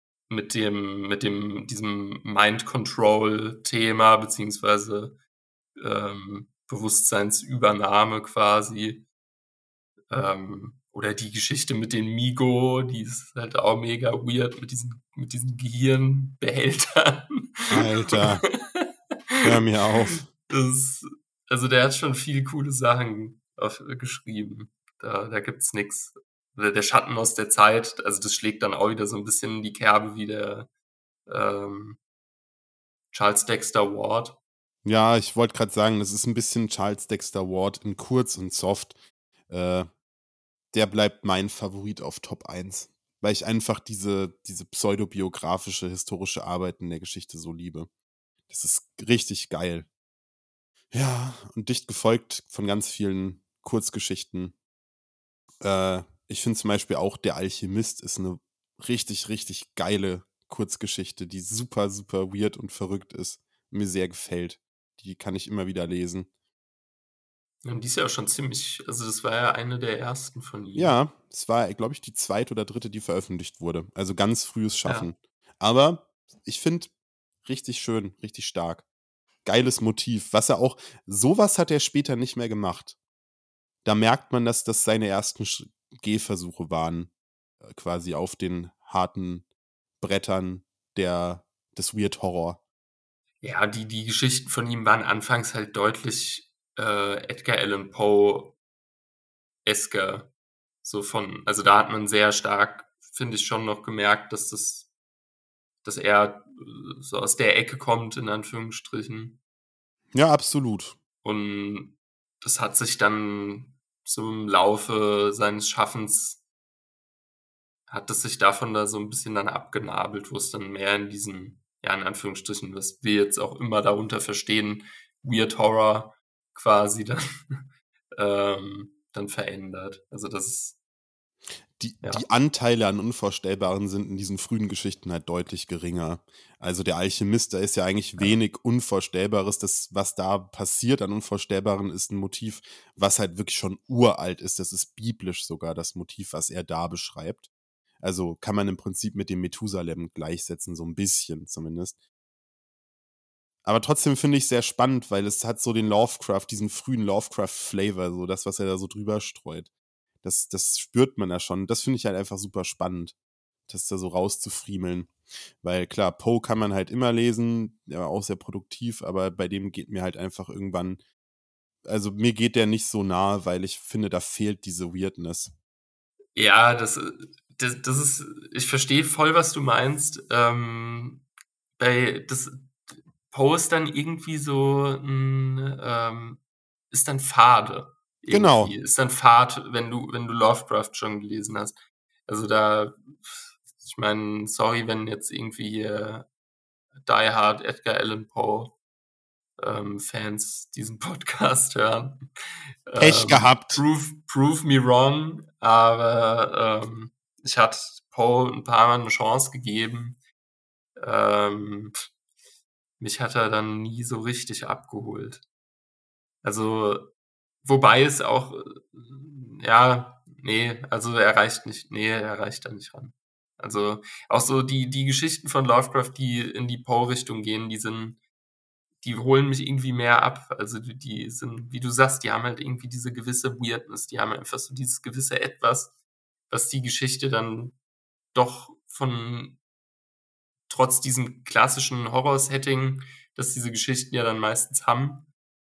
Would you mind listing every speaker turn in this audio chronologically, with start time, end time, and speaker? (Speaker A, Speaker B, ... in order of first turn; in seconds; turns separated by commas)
Speaker A: 0.3-5.2, Speaker A: 5.8-9.1, Speaker A: 10.1-19.5, Speaker B: 17.7-18.5, Speaker B: 19.4-20.2, Speaker A: 20.5-30.7, Speaker A: 31.3-32.0, Speaker A: 33.1-34.4, Speaker B: 34.9-39.0, Speaker B: 39.5-39.9, Speaker B: 40.7-47.9, Speaker B: 48.5-49.9, Speaker B: 50.9-54.5, Speaker B: 55.6-66.3, Speaker A: 67.6-71.0, Speaker B: 70.8-76.9, Speaker B: 77.5-78.8, Speaker B: 79.5-83.0, Speaker B: 83.8-87.1, Speaker B: 87.6-89.5, Speaker B: 90.0-92.6, Speaker A: 93.4-98.6, Speaker A: 99.7-100.3, Speaker A: 100.8-104.9, Speaker A: 105.8-109.4, Speaker B: 110.1-111.0, Speaker A: 111.2-116.4, Speaker A: 117.9-130.8, Speaker B: 131.8-147.5, Speaker B: 148.0-152.0, Speaker B: 153.7-159.7, Speaker B: 160.2-163.2, Speaker B: 163.7-171.0, Speaker B: 171.8-175.5, Speaker A: 176.3-181.3, Speaker A: 181.8-182.7, Speaker A: 183.3-196.3, Speaker B: 188.3-188.7, Speaker A: 197.0-198.8, Speaker A: 199.6-210.2, Speaker B: 203.0-203.8, Speaker A: 211.0-212.1, Speaker A: 213.0-215.4, Speaker A: 216.4-217.1, Speaker A: 217.6-228.2, Speaker A: 229.0-235.9, Speaker A: 236.5-237.8, Speaker A: 238.3-239.6, Speaker A: 240.7-245.3